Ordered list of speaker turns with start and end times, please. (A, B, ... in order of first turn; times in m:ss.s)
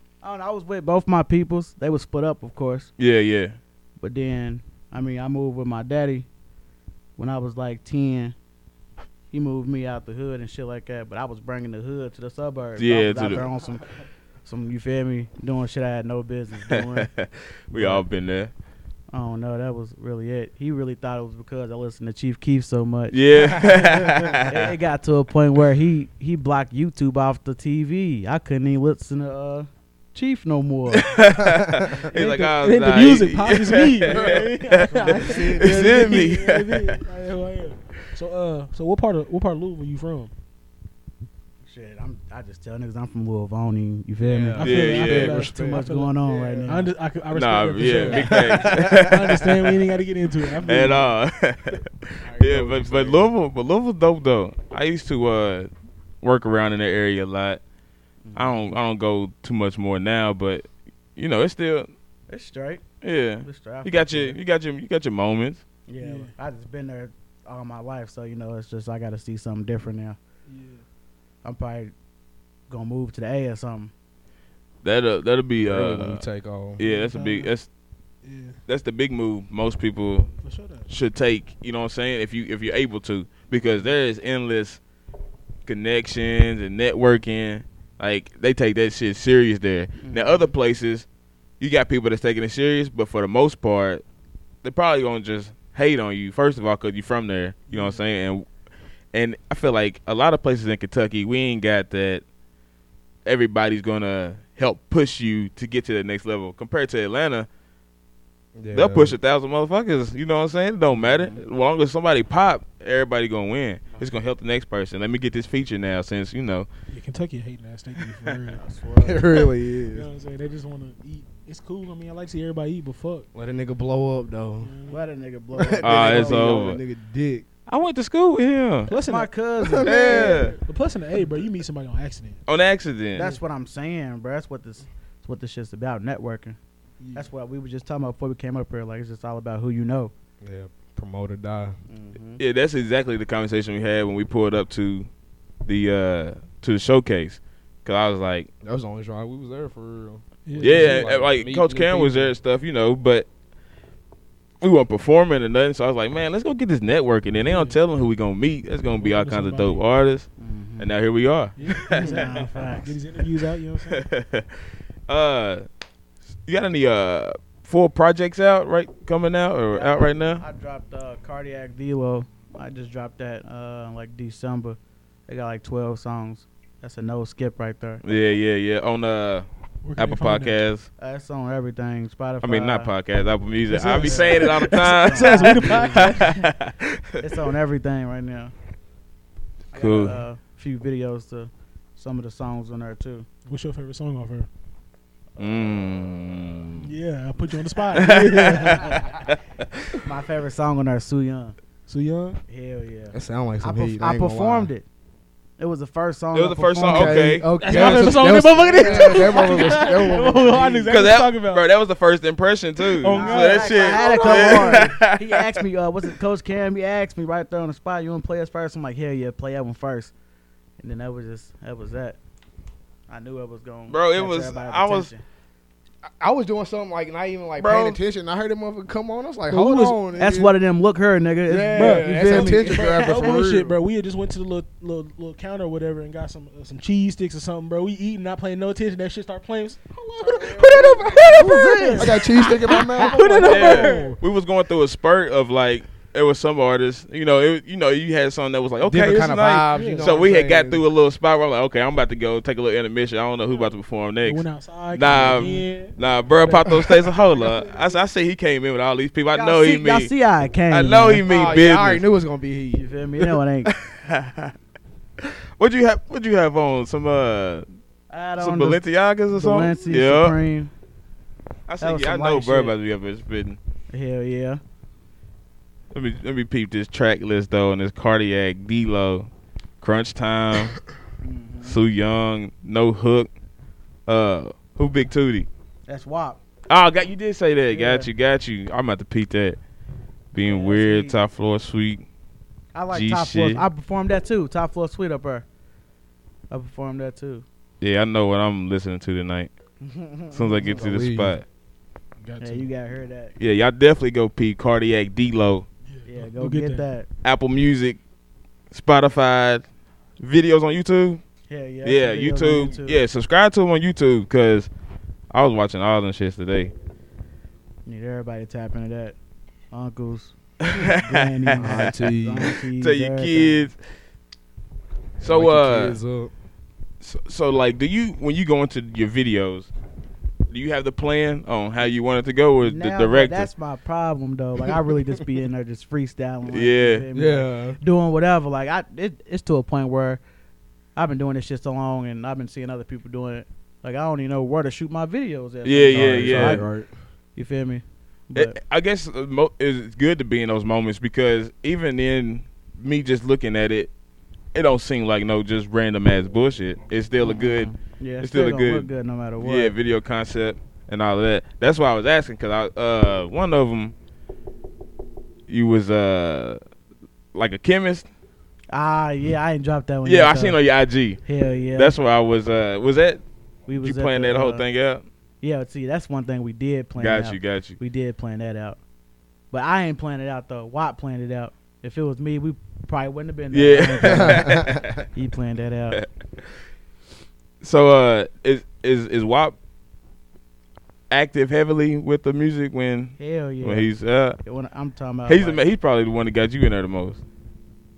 0:00.2-0:02.9 A
0:03.0-0:03.6 B
0:04.0-0:06.3 A
0:07.2-0:08.4 A
0:09.3-0:13.9 A
0:12.8-0:13.5 B
0:14.4-0:17.1 A
0:16.7-0:18.5 B
0:17.7-0:18.0 A
0:19.1-0:23.2 A
0:23.1-0:24.7 B
0:23.4-0:24.3 C
0:23.8-0:24.2 D
0:24.5-0:31.1 A
0:30.9-0:37.0 B
0:31.9-0:40.3 D
0:34.1-0:34.4 C
0:34.8-0:35.5 A
0:35.2-0:36.0 C
0:41.6-0:46.9 A
0:44.2-0:45.8 C
0:44.5-0:51.1 D
0:44.6-0:45.4 B
0:47.3-0:49.9 B
0:47.8-0:49.2 C
0:50.6-0:55.7 B
0:52.2-0:53.3 C
0:56.2-0:57.6 B
0:58.2-0:58.7 A
0:58.4-1:01.9 B
1:02.3-1:02.8 A
1:03.0-1:05.6 B
1:03.4-1:04.4 A
1:05.9-1:10.2 A
1:06.0-1:06.3 D
1:10.5-1:10.8 D
1:11.4-1:11.9 A
1:12.7-1:13.9 A
1:14.8-1:16.2 B
1:15.6-1:16.8 C
1:16.8-1:17.7 B
1:16.8-1:17.5 D
1:18.2-1:18.6 D
1:18.7-1:20.3 B
1:20.4-1:20.9 D
1:20.9-1:24.8 B
1:25.6-1:31.1 B
1:30.0-1:30.5 A
1:31.6-1:34.0 B
1:34.6-1:38.5 B
1:37.7-1:38.0 A
1:39.1-1:42.2 B
1:43.2-1:47.5 B
1:48.6-1:49.2 C
1:48.7-1:56.7 B
1:51.0-1:51.4 A
1:56.9-1:58.6 D
1:58.5-1:59.3 A
1:59.0-2:00.1 C
1:59.4-2:03.3 D
2:03.3-2:04.7 C
2:04.6-2:05.0 D
2:04.9-2:06.8 A
2:05.6-2:07.5 C
2:05.8-2:06.8 B
2:07.7-2:08.9 B
2:08.9-2:09.3 D
2:09.0-2:10.4 A
2:09.6-2:10.4 C
2:09.8-2:10.6 B
2:09.9-2:12.4 D
2:12.5-2:13.3 B
2:13.2-2:16.6 A
2:17.0-2:17.2 D
2:17.1-2:20.1 A
2:20.4-2:21.8 C
2:21.9-2:22.4 A
2:22.4-2:25.1 B
2:25.6-2:28.5 B
2:28.6-2:32.3 C
2:30.5-2:31.1 D
2:30.6-2:33.3 B
2:34.6-2:42.3 B
2:37.5-2:37.8 D
2:38.9-2:39.8 D
2:40.4-2:40.9 A
2:41.6-2:44.0 D
2:41.9-2:43.0 A
2:43.8-2:44.5 B
2:45.1-2:45.6 B
2:46.5-2:50.4 B
2:49.7-2:58.0 A
2:58.0-3:00.9 B
2:59.8-3:00.6 D
3:01.0-3:02.9 A
3:02.4-3:07.2 B
3:03.7-3:06.4 A
3:03.7-3:06.4 D
3:07.2-3:08.5 A
3:09.7-3:13.3 A
3:09.7-3:10.2 B
3:13.5-3:14.5 D
3:15.4-3:17.0 B
3:16.8-3:19.0 D
3:17.9-3:19.4 B
3:18.0-3:19.2 A
3:20.0-3:21.6 A
3:21.9-3:22.4 D
3:22.5-3:24.9 A
3:23.1-3:24.7 C
3:25.6-3:27.4 A
3:26.3-3:28.1 B
3:26.9-3:30.9 C
3:27.6-3:31.6 D
3:30.9-3:35.5 B
3:32.9-3:34.9 D
3:33.1-3:40.1 A
3:40.8-3:42.2 A
3:43.1-3:45.2 A
3:43.9-3:45.1 B
3:46.0-3:50.5 C
3:47.6-3:48.0 B
3:49.5-3:50.0 D
3:50.1-3:53.6 A
3:51.5-3:53.8 C
3:51.7-4:04.2 D
4:00.2-4:03.9 C
4:01.2-4:03.8 A
4:03.5-4:20.1 B
4:08.8-4:10.9 C
4:09.7-4:10.1 D
4:14.2-4:17.9 D
4:19.3-4:21.6 A
4:20.7-4:22.0 B
4:21.2-4:22.8 C
4:22.7-4:23.7 A
4:23.6-4:24.5 B
4:25.2-4:27.6 B
4:28.1-4:30.7 A
4:28.4-4:30.4 B
4:31.7-4:33.6 B
4:31.8-4:32.8 A
4:33.9-4:34.6 A
4:35.9-4:39.3 B
4:39.8-4:40.8 B
4:41.2-4:41.8 A
4:41.6-4:43.3 B
4:44.1-4:45.5 B
4:45.9-4:46.4 A
4:46.7-4:49.6 B
4:47.7-4:48.1 A
4:50.3-4:52.0 B
4:50.4-4:51.2 A
4:52.7-4:55.4 A
4:52.9-4:53.6 B
4:56.5-4:57.4 A
4:57.8-4:59.5 B
4:59.8-5:00.8 A
5:00.3-5:01.4 B
5:00.6-5:01.4 C
5:02.2-5:02.6 D
5:02.4-5:03.3 A
5:03.4-5:05.6 B
5:05.9-5:06.9 D
5:06.0-5:07.1 A
5:07.2-5:08.0 B
5:08.7-5:09.6 B
5:10.2-5:11.2 B
5:11.5-5:13.0 A
5:11.8-5:14.7 B
5:15.3-5:16.7 B
5:17.9-5:19.2 A
5:19.7-5:23.7 A
5:20.6-5:21.9 B
5:21.6-5:22.5 C
5:22.8-5:23.8 B
5:25.2-5:26.0 B
5:25.2-5:26.3 C
5:27.0-5:29.7 B
5:30.5-5:33.5 B
5:32.6-5:40.2 A
5:36.5-5:37.0 B
5:37.1-5:37.8 C
5:41.0-5:46.7 A
5:45.6-5:46.6 B
5:45.9-5:46.9 C
5:47.4-5:48.6 A
5:48.4-5:53.9 B
5:54.5-6:03.9 B
5:57.2-5:59.7 A
6:05.5-6:06.6 B
6:07.3-6:08.1 B
6:08.7-6:10.6 A
6:10.0-6:11.2 B
6:11.2-6:12.0 A
6:11.8-6:13.2 B
6:13.7-6:14.6 A
6:13.8-6:15.0 B
6:15.4-6:18.8 A
6:17.0-6:17.8 B
6:19.5-6:26.0 A
6:23.5-6:25.1 B
6:24.0-6:24.8 C
6:27.6-6:29.6 B
6:31.1-6:34.4 B
6:33.2-6:33.9 A
6:34.4-6:35.6 A
6:35.3-6:37.2 B